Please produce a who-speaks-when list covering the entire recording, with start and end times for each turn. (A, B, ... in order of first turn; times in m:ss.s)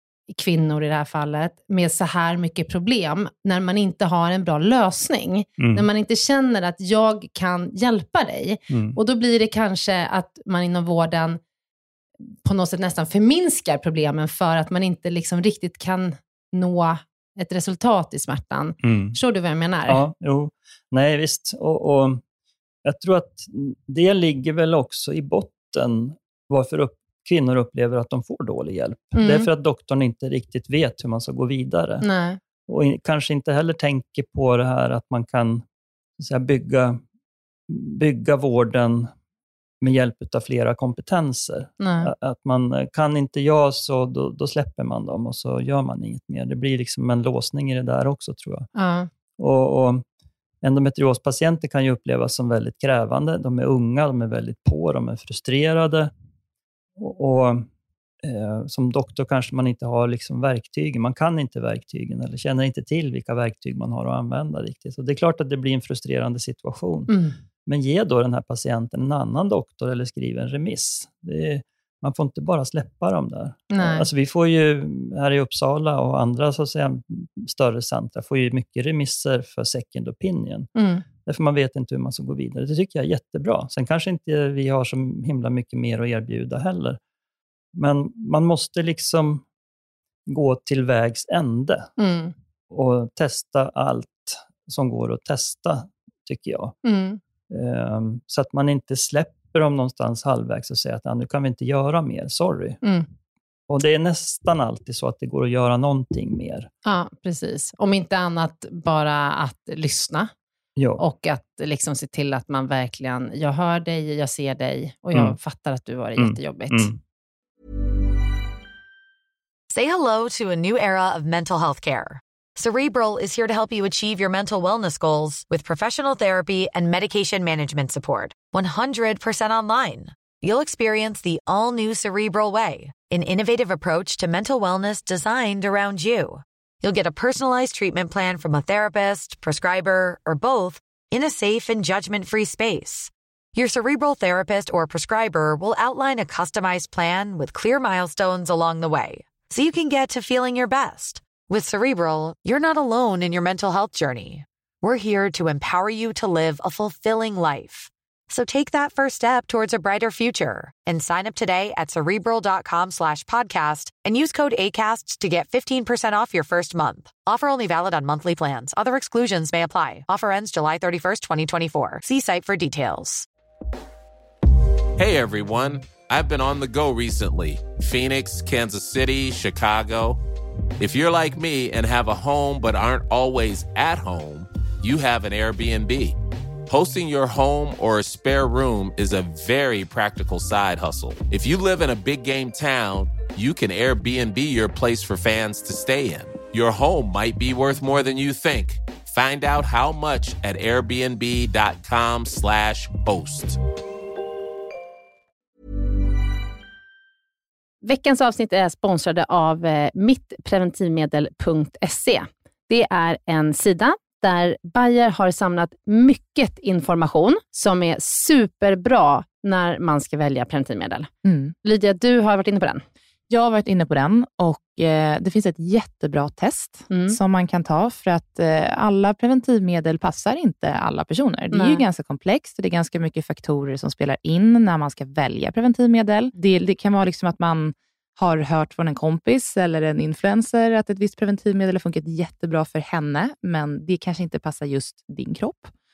0:00.3-0:11.4 A
0:05.6-0:05.8 B
0:08.7-0:09.0 B
0:12.4-0:20.0 A
0:18.8-0:19.2 B
0:19.9-0:22.2 B
0:22.8-0:32.1 B
0:29.2-0:29.5 A
0:32.0-0:32.4 A
0:32.7-0:35.6 B
0:36.2-0:37.0 B
0:37.7-0:39.1 B
0:39.8-0:48.7 B
0:41.8-0:42.1 A
0:48.7-0:49.1 A
0:49.4-0:50.0 B
0:50.6-0:56.1 B
0:57.0-0:57.7 B
0:58.2-1:07.1 B
1:07.1-1:07.4 A
1:07.6-1:20.7 B
1:13.7-1:14.1 A
1:20.8-1:21.0 A
1:21.2-1:27.0 B
1:27.7-1:29.4 B
1:30.3-1:31.9 B
1:32.0-1:32.3 A
1:32.7-1:36.8 B
1:36.8-1:37.2 A
1:37.5-1:42.8 B
1:42.8-1:43.1 A
1:43.7-1:46.7 B
1:46.8-1:50.3 A
1:50.8-1:51.0 B
1:51.0-1:56.9 A
1:56.2-1:57.0 B
1:59.7-2:53.3 C
2:55.0-3:00.2 D
3:00.8-3:23.6 D
3:27.8-3:41.1 A
3:41.2-3:41.5 E
3:41.6-3:42.8 A
3:43.3-4:05.7 E
3:46.9-3:47.2 A
3:51.5-3:51.8 A